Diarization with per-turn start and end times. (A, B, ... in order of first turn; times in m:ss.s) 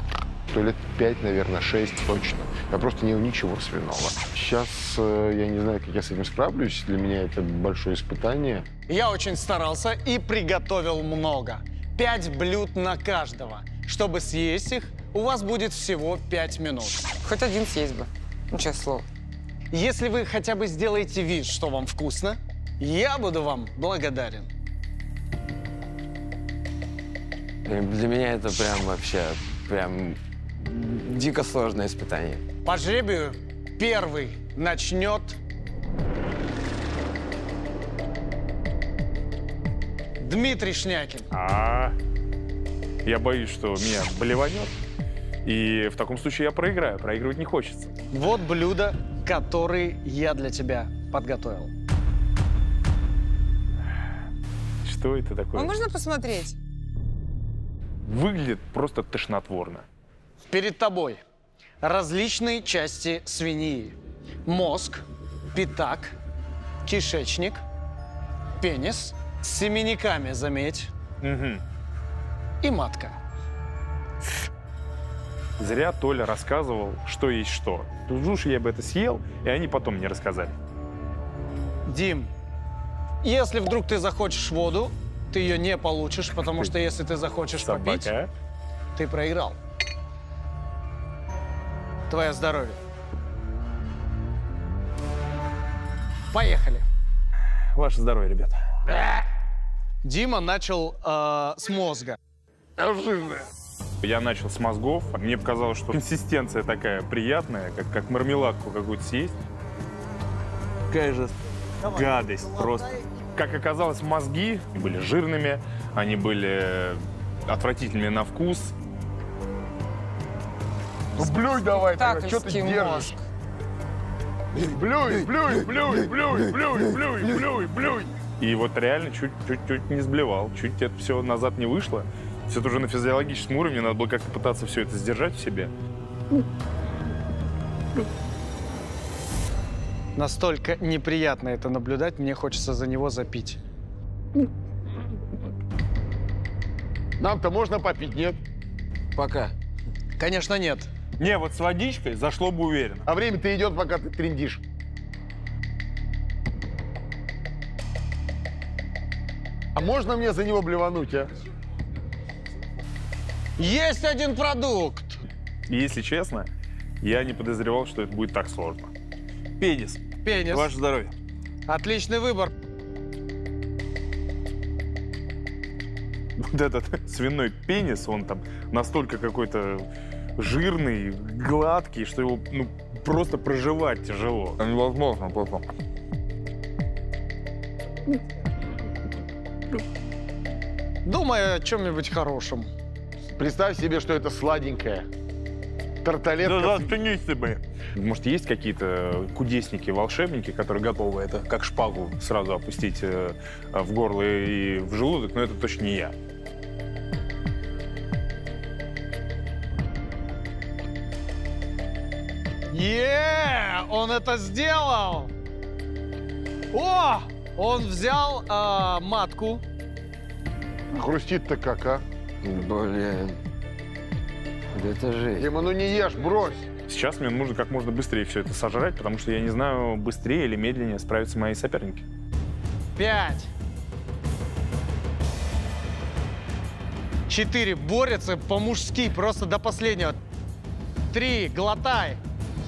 0:00.5-0:08.7 A
0:08.9-0:17.0 B
0:17.2-0:19.0 C
0:19.7-0:24.5 B
0:27.6-0:32.4 D
0:32.6-0:35.4 B
0:40.2-0:41.3 B
0:41.3-0:41.9 E
0:43.0-0:44.7 E
0:45.4-0:47.9 E
0:48.1-0:51.7 B
0:54.8-0:55.8 E
0:55.5-0:56.5 C
0:58.0-0:59.8 E
1:00.5-1:01.2 B
1:01.8-1:04.0 B
1:04.5-1:05.0 B
1:05.5-1:06.2 B
1:06.8-1:07.6 B
1:08.6-1:10.9 B
1:11.2-1:11.6 E
1:12.6-1:13.2 B
1:15.6-1:20.5 E
1:21.9-1:22.3 B
1:23.2-1:28.1 B
1:27.6-1:28.3 E
1:28.9-1:29.6 B
1:32.1-1:32.8 B
1:36.3-1:36.8 B
1:37.7-1:38.6 E
1:40.0-1:42.2 B
1:42.8-1:43.4 A
1:42.9-1:43.1 E
1:44.0-1:49.3 E
1:50.9-1:58.7 E
1:51.8-1:52.8 B
2:01.2-2:03.2 A
2:01.4-2:03.2 C
2:04.5-2:08.1 A
2:08.4-2:15.7 E
2:20.2-2:23.6 B
2:27.2-2:28.4 A
2:29.1-2:29.5 D
2:30.2-2:30.9 B
2:31.2-2:33.0 E
2:33.0-2:34.6 A
2:39.7-2:41.3 A
2:43.6-2:45.2 B
2:45.7-2:46.5 E
2:47.0-2:48.9 E
2:49.6-2:51.1 E
2:50.2-2:50.7 B
2:51.7-2:52.5 B
2:56.4-2:59.8 E
3:00.4-3:05.6 E
3:11.0-3:12.7 B
3:13.4-3:15.0 A
3:16.0-3:17.0 A
3:16.4-3:26.1 E
3:32.7-3:35.3 B
3:36.7-3:39.6 B
3:40.9-3:42.0 A
3:42.4-3:43.4 D
3:44.7-3:45.5 D
3:45.4-3:46.7 A
3:46.9-3:52.0 E
3:53.0-3:53.5 B
3:57.3-4:00.2 B
4:01.1-4:02.2 B